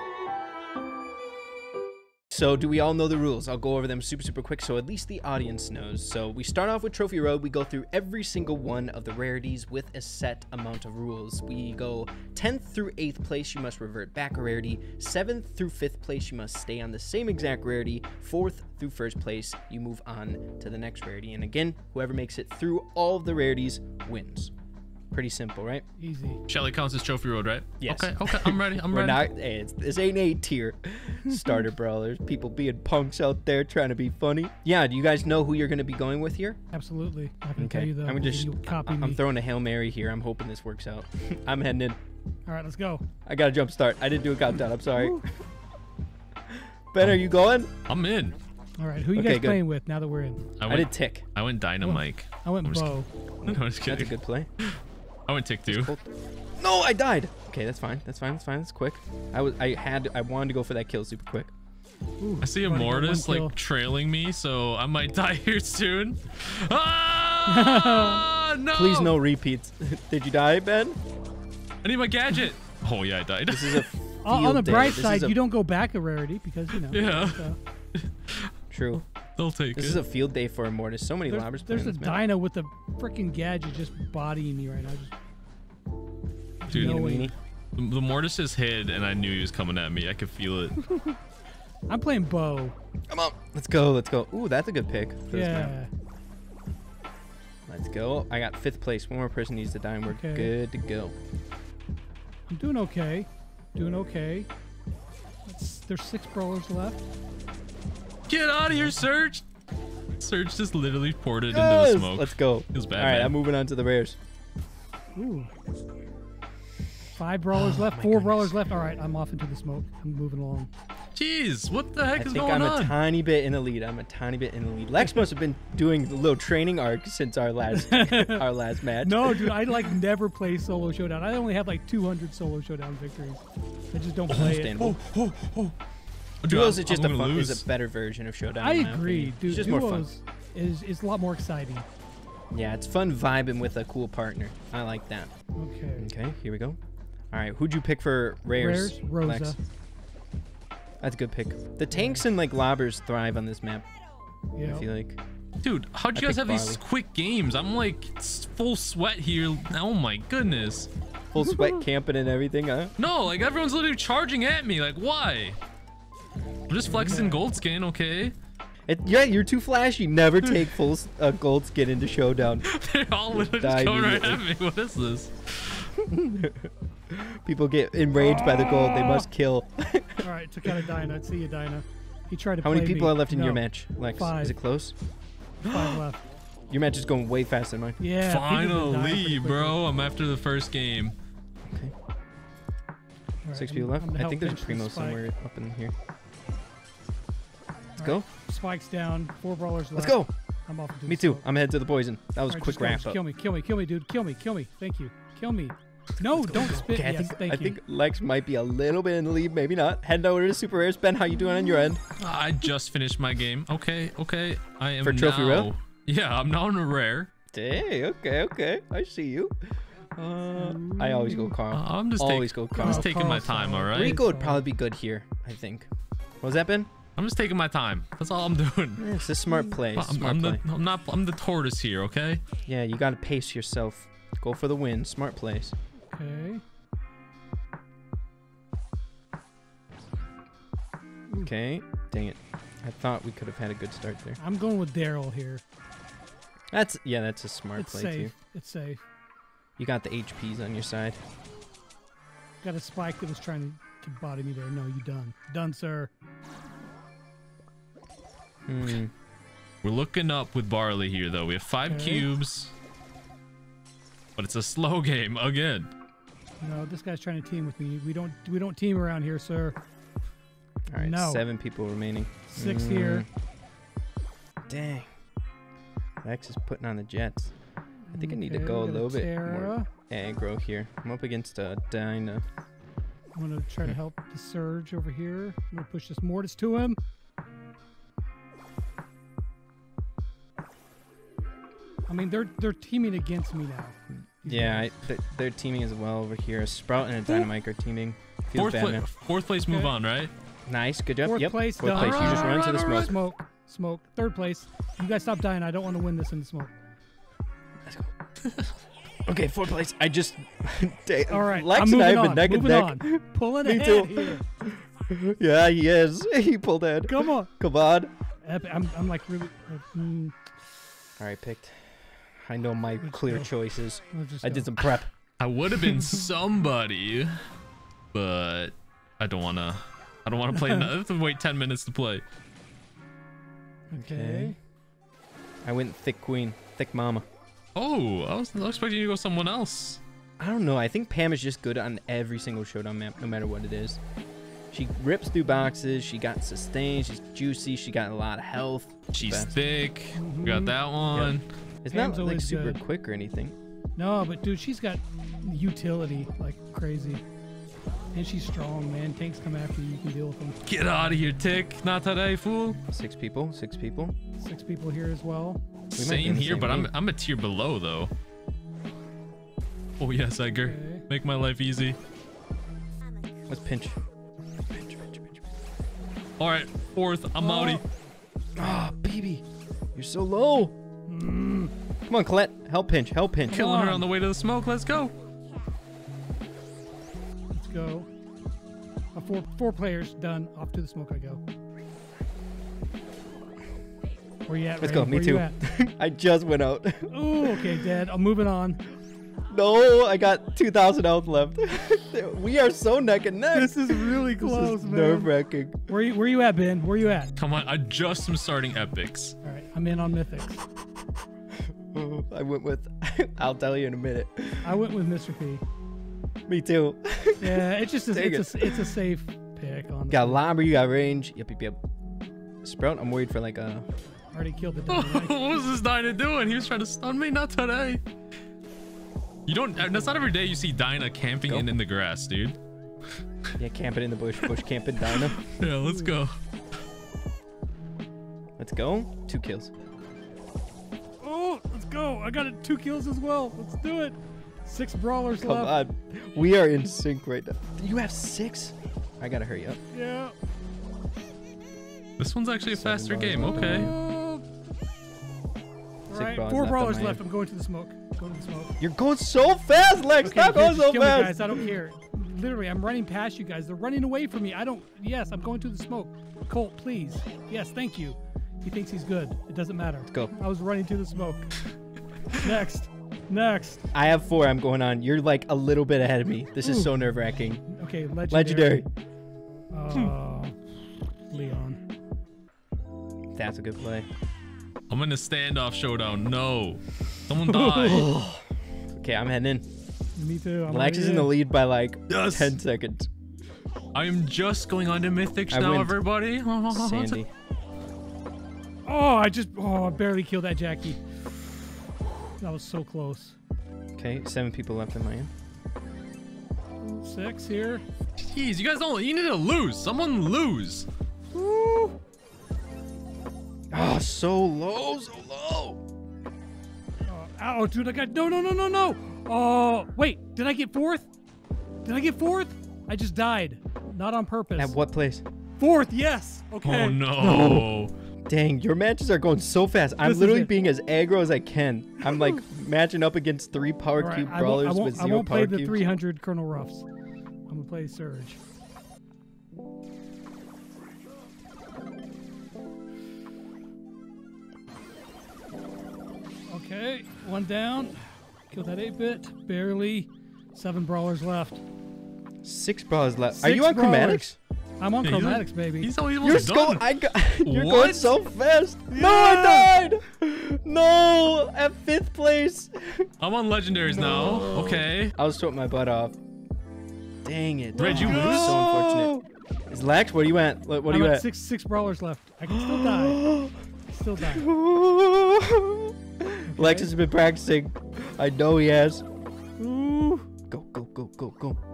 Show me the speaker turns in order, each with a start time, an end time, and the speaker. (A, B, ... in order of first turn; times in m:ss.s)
0:02.3-0:24.5 A
0:25.1-0:25.8 A
0:26.0-0:26.4 B
0:26.5-0:29.2 C
0:27.8-0:36.6 A
0:36.7-0:39.2 B
0:37.6-0:42.0 A
0:42.5-0:43.0 B
0:43.2-0:45.3 A
0:46.9-0:47.7 A
0:47.9-0:48.4 C
0:48.8-0:50.5 B
0:49.1-0:49.6 A
0:50.6-0:55.9 C
0:50.7-0:51.2 A
0:51.8-0:53.1 B
0:53.4-0:54.5 A
0:55.7-1:01.5 A
1:02.2-1:03.5 B
1:02.4-1:09.1 C
1:07.5-1:08.2 B
1:08.7-1:11.0 A
1:11.8-1:13.8 C
1:13.5-1:15.4 A
1:14.2-1:17.6 B
1:16.7-1:18.5 C
1:18.7-1:19.0 A
1:19.4-1:20.0 C
1:19.8-1:22.3 A
1:21.2-1:25.1 B
1:26.6-1:27.3 B
1:26.7-1:27.3 A
1:26.7-1:27.0 C
1:27.8-1:30.8 C
1:31.9-1:32.7 B
1:33.1-1:35.7 A
1:35.3-1:35.9 B
1:37.7-1:41.1 A
1:40.1-1:40.5 B
1:42.5-1:44.5 B
1:45.4-1:47.0 B
1:48.3-1:49.4 C
1:50.2-1:53.4 C
1:51.5-1:54.2 A
1:55.2-1:55.5 B
1:57.2-2:00.7 B
1:57.5-1:58.5 C
2:01.1-2:03.0 C
2:02.2-2:09.8 A
2:07.7-2:08.5 B
2:09.0-2:14.8 B
2:14.3-2:15.8 C
2:14.4-2:15.0 A
2:16.4-2:17.6 C
2:16.5-2:20.1 A
2:18.6-2:21.9 B
2:22.5-2:25.3 A
2:25.6-2:26.1 B
2:26.0-2:26.8 A
2:27.3-2:29.5 A
2:28.5-2:29.6 B
2:31.0-2:33.8 A
2:31.9-2:32.2 B
2:34.6-2:34.9 B
2:34.6-2:35.2 A
2:35.6-2:40.9 C
2:36.1-2:36.8 A
2:41.3-2:42.9 A
2:43.0-2:45.6 C
2:46.7-2:48.3 C
2:46.9-2:47.5 B
2:48.9-2:52.7 A
2:52.6-2:55.9 C
2:53.4-2:54.4 A
2:56.0-3:00.2 A
2:58.2-2:59.2 B
3:00.2-3:04.6 B
3:02.6-3:05.0 A
3:05.6-3:06.2 B
3:06.7-3:08.0 A
3:08.0-3:09.8 B
3:08.2-3:11.2 C
3:11.7-3:11.9 A
3:13.4-3:15.2 B
3:13.5-3:15.9 A
3:18.0-3:21.4 B
3:18.0-3:18.3 A
3:19.9-3:20.3 A
3:21.0-3:23.2 A
3:22.5-3:27.8 B
3:26.3-3:32.0 A
3:32.2-3:37.3 C
3:35.0-3:35.7 A
3:37.5-3:43.2 A
3:40.6-3:41.5 B
3:41.7-3:44.2 C
3:42.7-3:44.6 B
3:43.9-3:45.9 A
3:46.4-3:46.9 A
3:47.2-3:49.1 C
3:49.0-3:50.6 A
3:49.9-3:52.4 C
3:52.6-3:55.7 A
3:56.1-3:56.6 B
4:01.4-4:04.4 A
4:04.4-4:05.6 B
4:06.7-4:08.3 A
4:07.8-4:09.0 B
4:09.8-4:11.2 A
4:12.6-4:16.1 B
4:18.7-4:19.1 A
4:19.8-4:22.7 C
4:21.9-4:22.3 B
4:24.4-4:25.9 C
4:26.6-4:29.8 B
4:30.9-4:33.3 A
4:31.0-4:31.4 B
4:32.5-4:33.2 B
4:34.7-4:35.1 A
4:36.2-4:37.5 A
4:38.1-4:39.9 B
4:38.1-4:42.4 A
4:43.3-4:47.0 B
4:52.1-4:54.9 B
4:54.4-4:59.1 A
4:58.5-5:00.3 C
4:59.7-4:59.9 B
5:00.7-5:03.1 A
5:01.2-5:06.7 B
5:01.9-5:03.1 C
5:07.8-5:08.1 A
5:09.3-5:18.1 A
5:11.3-5:14.4 B
5:17.0-5:17.5 B
5:18.4-5:20.4 B
5:21.2-5:25.1 A
5:23.0-5:23.5 B
5:24.1-5:24.7 B
5:25.4-5:27.3 C
5:28.1-5:32.2 C
5:33.9-5:34.6 B
5:34.0-5:34.5 A
5:35.6-5:37.2 A
5:37.8-5:40.0 C
5:40.4-5:44.0 A
5:44.7-5:49.6 A
5:49.1-5:51.4 C
5:50.1-5:50.7 B
5:51.1-5:53.5 A
5:51.9-5:52.8 B
5:54.0-5:57.2 B
5:58.1-6:00.6 B
6:00.6-6:02.8 C
6:02.9-6:04.1 A
6:04.4-6:05.6 B
6:05.9-6:06.9 A
6:06.0-6:08.1 C
6:10.0-6:12.0 C
6:10.6-6:11.0 B
6:13.5-6:13.9 A
6:14.7-6:15.4 A
6:16.4-6:17.8 C
6:17.4-6:17.8 B
6:18.6-6:19.4 A
6:19.9-6:20.7 A
6:21.1-6:21.7 B
6:22.1-6:23.7 A
6:23.5-6:24.1 B
6:23.5-6:25.1 C
6:27.5-6:28.1 B
6:29.1-6:31.4 B
6:34.5-6:35.6 B
6:34.8-6:37.7 A
6:37.1-6:38.8 B
6:39.5-6:45.8 A
6:43.5-6:45.3 B
6:45.9-6:47.3 B
6:47.4-6:49.3 C
6:49.4-6:50.6 B
6:51.8-6:54.8 A
6:54.6-6:55.6 B
6:56.5-6:58.8 A
6:57.4-7:00.4 B
7:00.1-7:01.8 A
7:02.6-7:03.8 A
7:04.3-7:05.4 B
7:04.9-7:08.0 C
7:09.5-7:12.6 C
7:13.6-7:15.4 A
7:15.1-7:16.3 C
7:15.8-7:16.1 B
7:18.6-7:19.7 A
7:21.2-7:25.7 B
7:25.4-7:29.8 A
7:29.9-7:30.3 B
7:32.2-7:33.9 C
7:32.7-7:33.9 A
7:33.5-7:34.4 B
7:36.1-7:38.8 B
7:36.1-7:37.2 A
7:38.8-7:41.6 A
7:40.2-7:51.7 B
7:52.3-7:53.8 B
7:53.9-7:57.6 A
7:56.6-7:57.1 B
7:57.6-7:58.9 B
7:58.3-7:58.9 A
7:59.7-8:01.8 B
8:03.3-8:04.1 A
8:04.9-8:08.1 C
8:07.5-8:08.0 B
8:07.8-8:09.6 A
8:10.2-8:11.3 B
8:10.7-8:13.1 A
8:12.1-8:12.6 C
8:13.9-8:17.2 C
8:15.5-8:16.0 A
8:16.7-8:17.3 A
8:18.8-8:21.0 B
8:22.4-8:23.4 B
8:24.0-8:25.3 A
8:26.8-8:27.8 B
8:28.2-8:30.9 C
8:31.3-8:31.9 B
8:33.7-8:35.8 A
8:37.1-8:41.1 B
8:41.8-8:44.8 B
8:44.6-8:45.2 A
8:45.6-8:47.5 B
8:46.6-8:47.9 C
8:47.2-8:47.6 A
8:48.3-8:55.8 A
8:50.0-8:50.5 B
8:54.0-8:56.9 B
8:57.5-8:58.4 B
9:06.5-9:11.6 B
9:12.4-9:14.4 A
9:13.3-9:15.9 B
9:15.0-9:16.8 C
9:16.2-9:23.1 A
9:17.4-9:18.2 C
9:18.9-9:19.4 C
9:19.2-9:19.6 B
9:23.2-9:25.1 C
9:23.9-9:26.2 A
9:27.2-9:31.2 A
9:27.8-9:28.6 B
9:27.8-9:29.1 C
9:30.9-9:33.2 B
9:32.5-9:33.5 A
9:33.9-9:34.5 B
9:34.2-9:39.0 A
9:36.4-9:36.9 B
9:39.6-9:40.2 B
9:40.5-9:41.6 A